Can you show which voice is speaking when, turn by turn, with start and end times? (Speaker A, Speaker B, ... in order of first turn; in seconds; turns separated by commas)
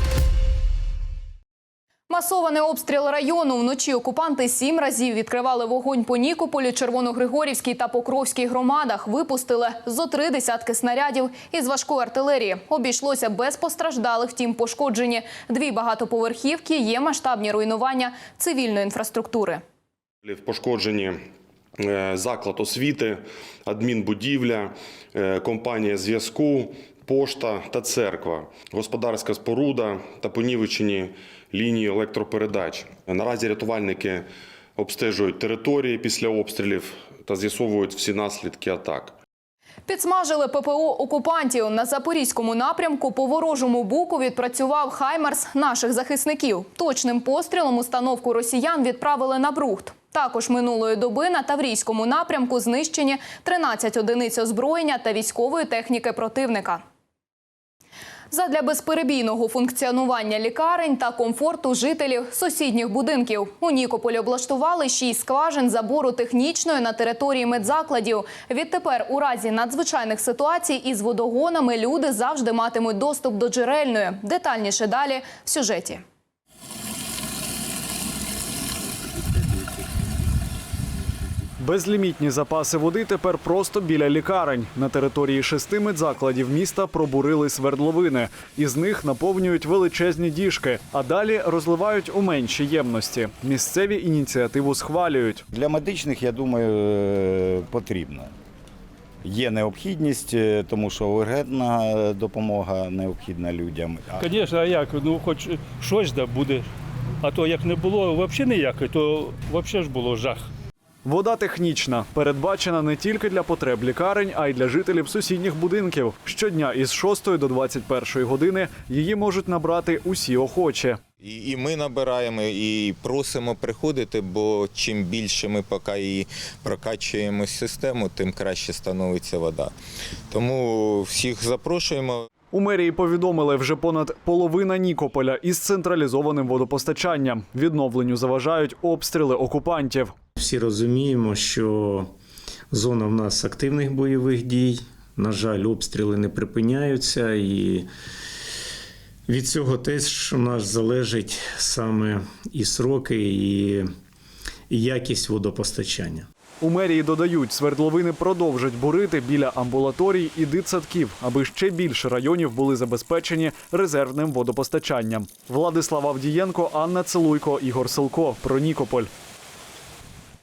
Speaker A: 2.1-19.6, Speaker B: 20.2-21.2, Speaker B: 21.8-34.2, Speaker B: 34.8-39.1, Speaker A: 39.9-56.8, Speaker A: 58.3-76.0, Speaker C: 81.6-95.4, Speaker D: 95.5-98.3, Speaker D: 99.2-104.2, Speaker E: 104.2-106.7, Speaker E: 107.2-110.5, Speaker C: 111.0-121.0, Speaker F: 121.2-129.7, Speaker F: 130.3-132.2, Speaker C: 132.5-140.1, Speaker G: 140.4-142.1, Speaker G: 142.7-147.9, Speaker G: 149.3-153.8, Speaker G: 154.7-156.2, Speaker C: 156.6-169.1